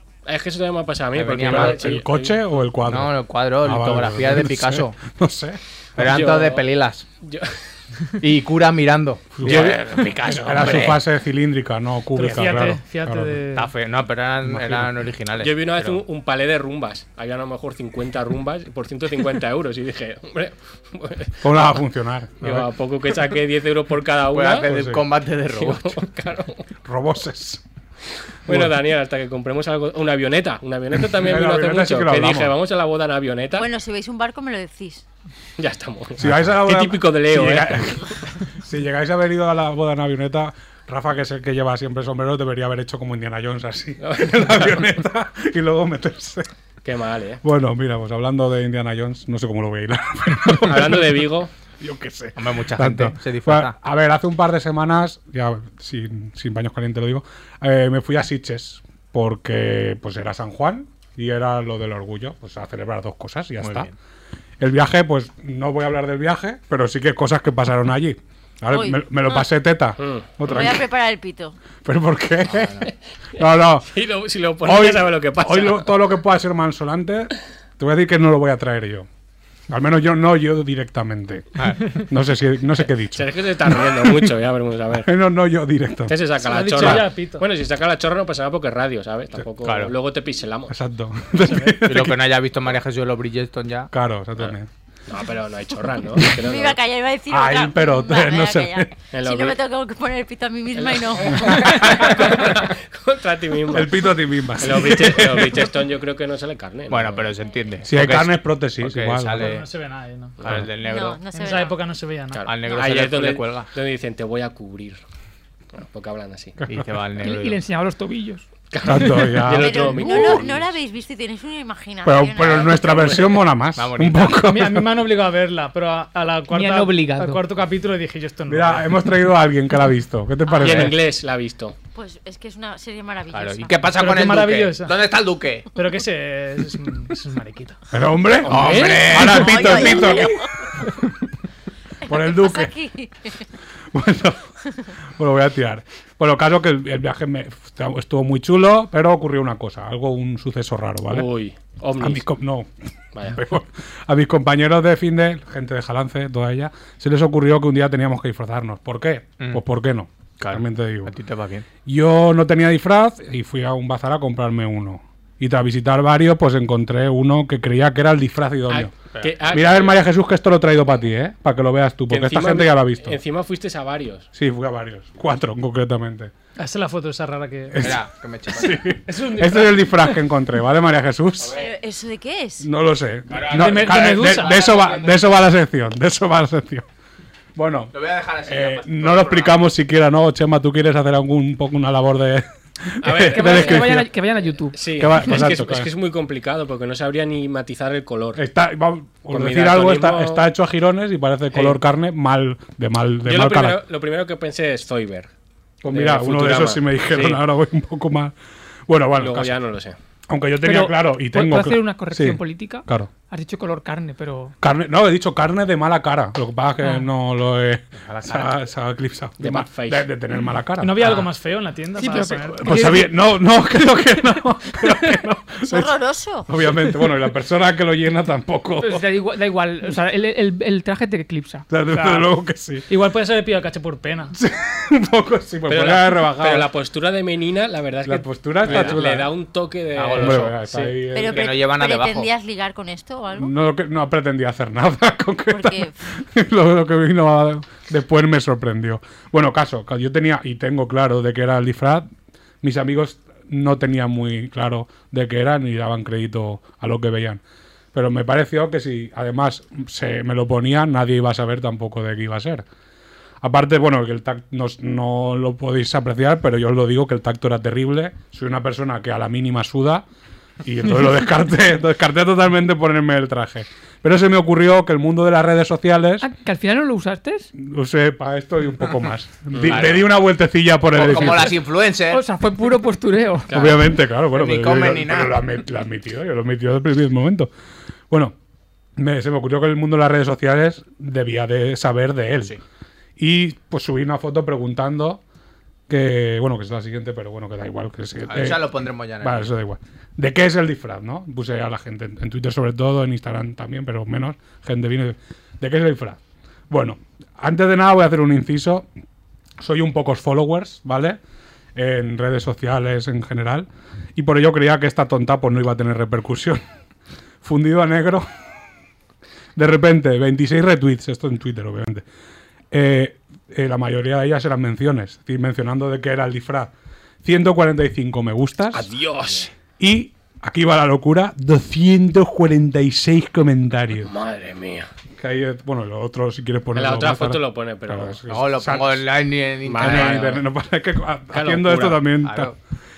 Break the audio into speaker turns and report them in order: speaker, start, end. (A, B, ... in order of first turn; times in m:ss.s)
0:00.3-0:02.4 A
0:01.1-0:02.0 B
0:01.4-0:06.0 C
0:02.8-0:05.0 B
0:06.0-0:07.0 B
0:06.0-0:06.6 A
0:07.2-0:07.6 A
0:08.2-0:11.0 B
0:09.4-0:13.4 C
0:09.4-0:10.9 A
0:12.2-0:13.7 D
0:13.6-0:16.0 B
0:14.4-0:14.9 C
0:15.4-0:21.8 A
0:21.4-0:22.7 C
0:22.4-0:24.7 A
0:24.3-0:26.0 B
0:24.6-0:25.0 C
0:25.5-0:26.6 A
0:26.8-0:27.6 C
0:28.5-0:33.7 A
0:28.5-0:28.7 C
0:31.1-0:32.6 C
0:33.6-0:35.0 E
0:35.6-0:38.1 A
0:36.2-0:46.5 C
0:44.0-0:44.8 A
0:46.8-0:47.4 A
0:47.4-0:51.3 C
0:50.7-0:51.5 A
0:51.8-1:03.9 C
0:52.4-0:53.8 B
1:03.6-1:03.9 B
1:04.6-1:10.9 C
1:08.7-1:09.4 E
1:10.0-1:10.7 A
1:10.4-1:11.6 E
1:11.8-1:13.9 C
1:12.5-1:12.9 B
1:13.9-1:16.0 A
1:14.6-1:19.1 C
1:19.7-1:24.4 C
1:21.6-1:22.0 B
1:23.1-1:25.1 A
1:24.9-1:26.2 C
1:26.1-1:30.7 A
1:26.4-1:27.4 D
1:26.8-1:27.0 C
1:29.6-1:29.9 B
1:30.7-1:32.3 C
1:31.4-1:31.8 D
1:31.8-1:33.9 B
1:33.9-1:34.7 C
1:35.1-1:36.8 A
1:36.3-1:41.9 E
1:37.3-1:38.9 C
1:39.1-1:39.6 A
1:40.8-1:47.3 A
1:41.4-1:42.5 C
1:43.7-1:45.7 C
1:46.9-1:49.7 B
1:47.8-1:49.6 C
1:49.4-1:50.4 D
1:50.4-1:50.7 A
1:50.4-1:51.2 B
1:50.8-1:51.8 E
1:51.3-1:52.5 D
1:52.3-1:55.0 A
1:52.5-1:53.7 B
1:55.7-1:56.6 A
1:56.6-1:56.9 C
1:56.6-1:57.6 B
1:57.2-1:58.4 F
1:58.7-2:00.6 A
1:58.8-2:00.5 C
1:59.5-2:03.3 E
2:02.0-2:04.9 C
2:02.7-2:03.4 A
2:03.8-2:04.4 B
2:04.4-2:09.2 D
2:06.5-2:07.4 F
2:08.5-2:11.0 C
2:10.5-2:10.9 E
2:10.6-2:11.8 A
2:11.9-2:13.8 E
2:13.3-2:15.7 B
2:13.9-2:15.0 D
2:15.8-2:17.8 D
2:17.9-2:20.5 C
2:18.4-2:20.3 B
2:18.5-2:19.3 A
2:19.2-2:20.5 E
2:22.0-2:23.4 E
2:22.1-2:22.7 C
2:23.9-2:24.5 C
2:25.1-2:31.3 C
2:31.1-2:32.2 A
2:32.0-2:32.7 C
2:33.2-2:33.4 A
2:33.2-2:41.1 C
2:40.4-2:41.7 B
2:41.8-2:48.9 C
2:48.7-2:50.0 A
2:49.5-2:53.2 C
2:52.1-2:54.3 A
2:54.3-2:56.3 C
2:56.6-2:57.9 D
2:57.7-3:01.6 C
2:57.8-2:58.9 B
2:59.0-3:00.2 D
3:01.4-3:01.7 B
3:01.6-3:02.7 E
3:02.6-3:06.9 C
3:03.3-3:05.4 B
3:03.5-3:04.6 D
3:07.6-3:07.9 C
3:07.9-3:09.6 B
3:08.4-3:14.1 C
3:13.0-3:14.0 A
3:13.2-3:15.4 F
3:14.7-3:18.4 A
3:15.0-3:15.9 C
3:18.4-3:23.8 C
3:19.3-3:20.5 A
3:21.5-3:21.8 A
3:23.2-3:25.3 A
3:25.8-3:28.4 C
3:25.9-3:27.4 A
3:28.9-3:29.6 C
3:29.2-3:30.0 A
3:30.3-3:33.1 C
3:30.6-3:34.6 F
3:34.6-3:41.2 C
3:38.0-3:38.5 B
3:39.4-3:40.0 A
3:40.8-3:42.9 D
3:41.0-3:41.3 B
3:42.0-3:43.3 F
3:42.6-3:49.0 C
3:45.6-3:46.5 E
3:48.8-3:51.8 F
3:51.7-3:52.8 C
3:51.9-3:52.3 D
3:52.9-3:54.3 D
3:54.4-3:56.7 C
3:55.7-4:01.0 A
3:58.0-3:59.3 C
3:58.6-3:59.0 B
4:00.0-4:00.6 B
4:00.2-4:01.5 C
4:01.1-4:03.5 E
4:01.3-4:02.3 B
4:03.4-4:12.1 C
4:05.5-4:06.0 E
4:12.6-4:17.4 C
4:17.9-4:22.7 C
4:23.4-4:30.0 C
4:30.6-4:36.3 C
4:36.2-4:37.5 F
4:37.6-4:41.6 C
4:39.5-4:40.0 A
4:39.6-4:40.2 B
4:40.9-4:42.2 B
4:42.0-4:43.5 F
4:43.5-4:43.8 A
4:43.5-4:47.5 C
4:44.3-4:45.4 B
4:48.1-4:48.4 C
4:49.0-4:52.6 C
4:53.2-4:55.2 C
4:55.9-5:08.9 C
4:58.3-4:59.5 B
5:09.6-5:11.2 C
5:11.8-5:16.6 C
5:17.4-5:18.3 C
5:19.6-5:22.0 C
5:22.7-5:26.7 C
5:27.2-5:28.9 C
5:28.7-5:29.5 A
5:29.8-5:34.1 C
5:34.0-5:34.9 A
5:35.2-5:39.0 C
5:36.8-5:38.2 A
5:38.3-5:40.4 B
5:39.6-5:40.4 A
5:39.8-5:42.5 C
5:41.3-5:42.0 A
5:42.2-5:42.5 B